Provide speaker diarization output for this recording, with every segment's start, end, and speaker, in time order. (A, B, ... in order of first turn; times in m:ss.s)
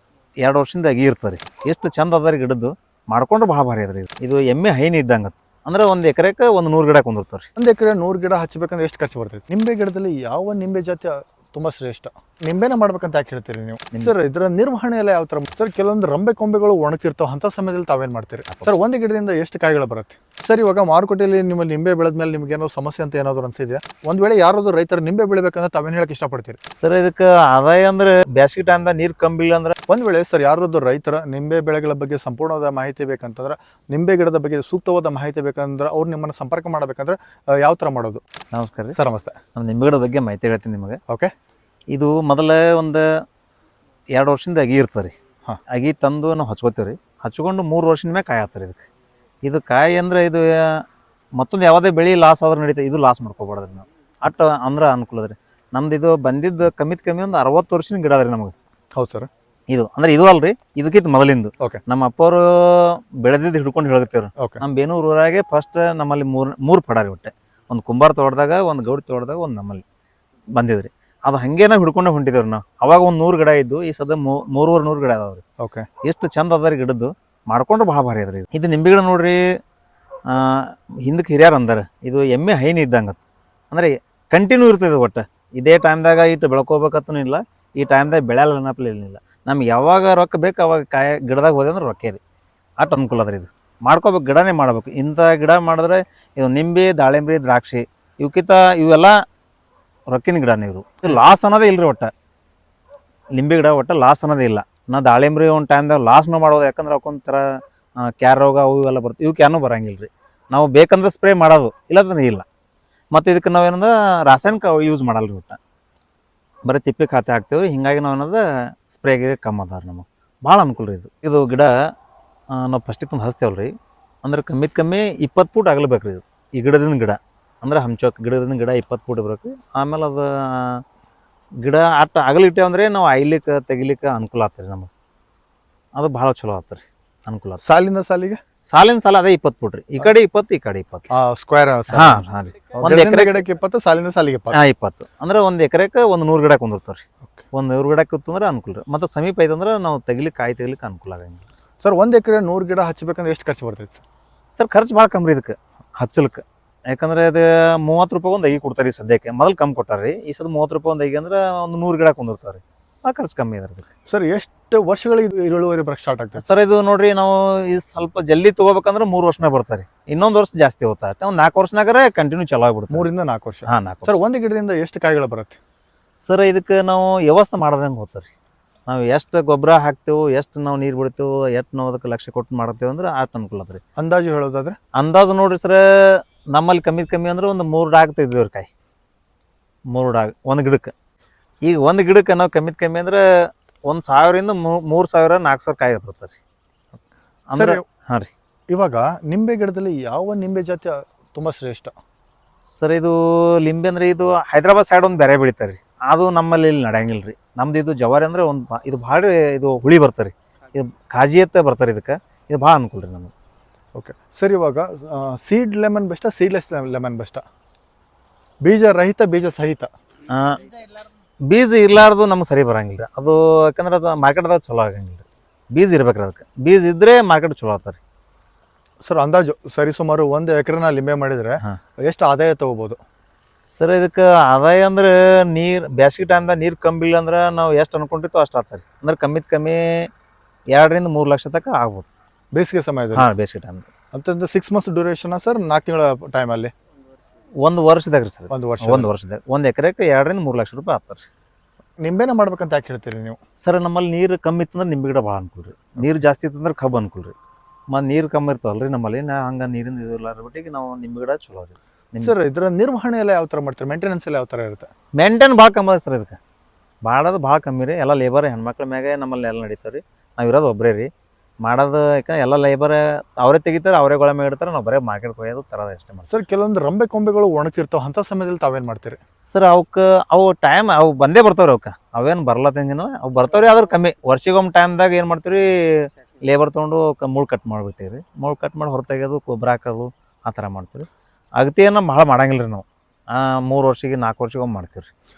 0:00.4-0:07.5 A
0:07.6-0:26.6 B
0:26.8-0:29.8 A
0:29.9-0:38.2 B
0:38.5-0:39.0 A
0:38.9-0:39.4 B
0:39.6-0:41.0 A
0:41.9-0:43.1 A
0:44.1-0:45.1 A
0:45.7-0:48.9 A
0:49.4-0:50.8 A
0:51.4-0:58.5 A
0:59.0-0:59.3 B
0:59.7-1:09.8 A
1:10.6-1:15.4 A
1:15.6-1:15.9 B
1:16.0-1:19.4 A
1:20.3-1:23.2 A
1:23.7-1:32.2 A
1:32.8-1:39.2 A
1:40.1-1:42.1 A
1:43.4-1:52.5 A
1:53.1-1:55.6 A
1:56.6-2:01.7 A
2:02.5-2:03.7 A
2:04.2-2:10.8 A
2:11.6-2:14.9 A
2:16.0-2:17.6 A
2:17.6-2:18.4 B
2:18.7-2:21.1 A
2:21.1-2:22.2 B
2:21.9-2:23.4 A
2:22.8-2:24.6 B
2:24.5-2:31.5 A
2:31.8-2:34.0 B
2:34.5-2:43.9 A
2:44.1-2:46.4 B
2:46.4-2:53.1 A
2:52.9-2:55.6 B
2:53.7-2:54.2 A
2:56.2-2:58.3 A
2:58.9-3:03.8 A
3:04.0-3:04.8 B
3:05.0-3:08.7 A
3:09.9-3:10.9 A
3:11.6-3:13.2 A
3:13.9-3:16.4 A
3:17.5-3:18.3 A
3:17.6-3:17.8 B
3:18.7-3:22.0 B
3:22.8-3:33.3 A
3:34.0-3:37.4 B
3:38.6-3:39.9 B
3:40.3-3:40.7 A
3:41.5-3:48.0 A
3:49.0-3:53.0 B
3:53.7-4:00.1 A
4:00.7-4:02.1 A
4:02.5-4:03.3 B
4:03.2-4:03.9 A
4:04.1-4:06.7 B
4:07.6-4:11.2 A
4:08.5-4:09.1 B
4:12.0-4:13.4 B
4:13.6-4:17.3 A
4:17.9-4:22.3 A
4:22.2-4:24.9 B
4:25.2-4:26.4 A
4:27.0-4:31.1 A
4:31.6-4:36.3 A
4:36.3-4:39.2 B
4:39.5-4:55.1 A